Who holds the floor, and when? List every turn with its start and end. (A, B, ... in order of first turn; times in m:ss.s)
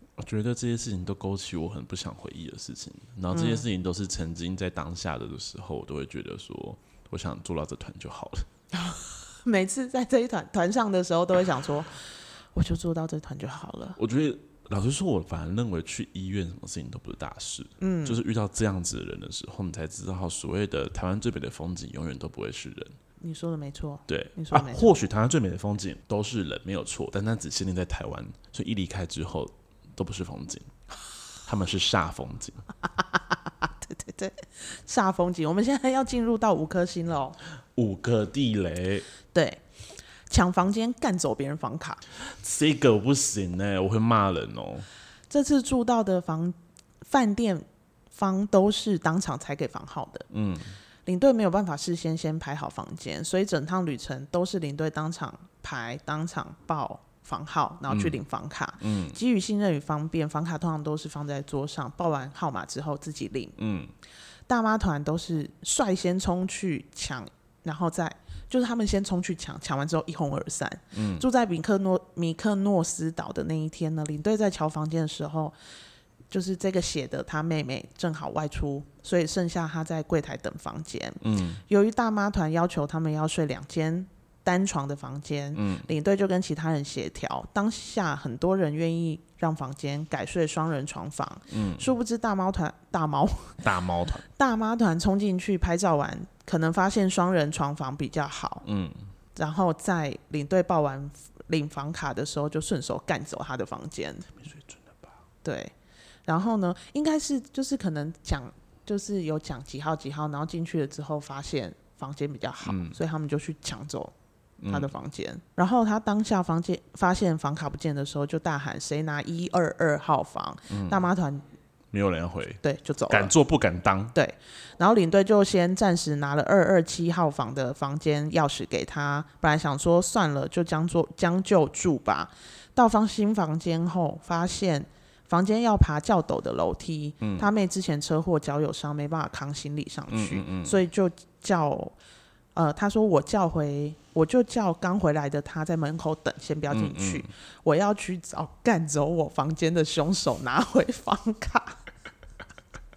0:00.2-0:08.4 A
0:03.3-0:03.6 B
0:08.7-0:14.0 B
0:14.0-0:23.0 A
0:17.8-0:18.2 B
0:23.2-0:24.9 B
0:24.1-0:30.7 A
0:31.4-0:32.6 A
0:33.0-0:37.4 B
0:37.7-0:39.1 A
0:39.3-0:39.6 B
0:40.3-0:42.0 B
0:42.2-0:44.9 A
0:45.3-0:50.3 B
0:50.3-0:50.7 A
0:51.0-1:03.6 B
0:57.9-0:58.2 A
0:58.8-0:59.2 A
1:03.6-1:03.9 A
1:04.5-1:15.5 B
1:10.9-1:11.2 A
1:16.3-1:33.6 B
1:21.2-1:21.6 A
1:25.6-1:25.9 A
1:31.5-1:31.9 A
1:33.6-1:34.2 A
1:34.3-1:38.6 B
1:38.6-1:39.0 A
1:39.4-1:44.3 B
1:44.3-1:45.1 A
1:45.4-1:45.7 B
1:46.2-1:54.1 B
1:52.6-1:53.0 A
1:54.6-1:54.9 A
1:54.7-2:01.4 B
2:00.7-2:01.0 A
2:01.9-2:04.1 A
2:02.6-2:03.3 B
2:04.1-2:21.9 B
2:17.2-2:17.5 A
2:20.1-2:20.8 A
2:22.5-2:31.8 B
2:26.7-2:27.3 A